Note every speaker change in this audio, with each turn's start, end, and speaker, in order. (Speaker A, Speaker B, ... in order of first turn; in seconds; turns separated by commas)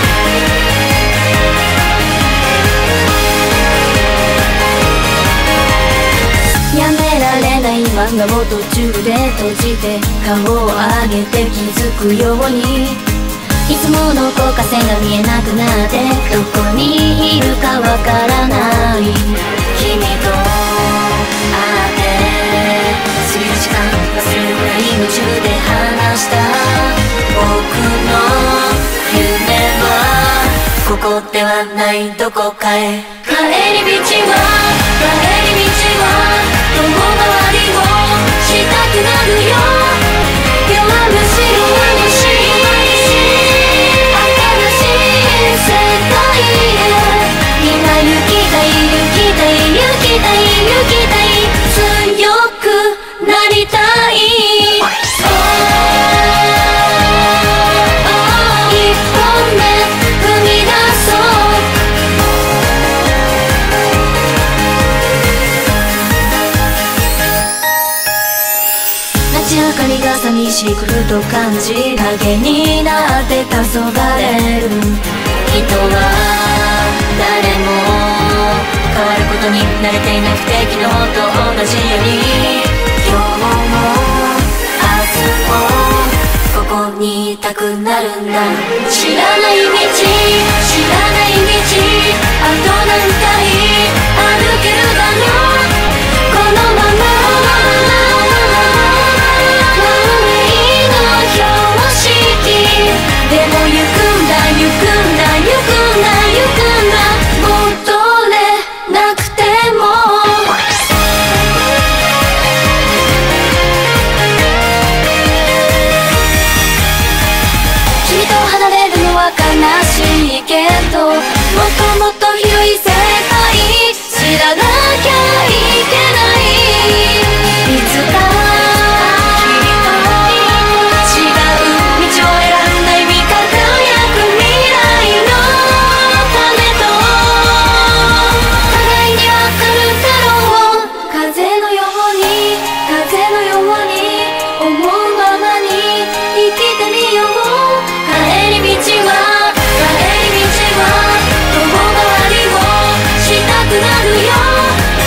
Speaker A: 6.7-13.0, Speaker A: 13.7-40.1, Speaker A: 40.7-56.8, Speaker A: 58.0-61.7, Speaker A: 69.3-110.7, Speaker A: 118.0-154.9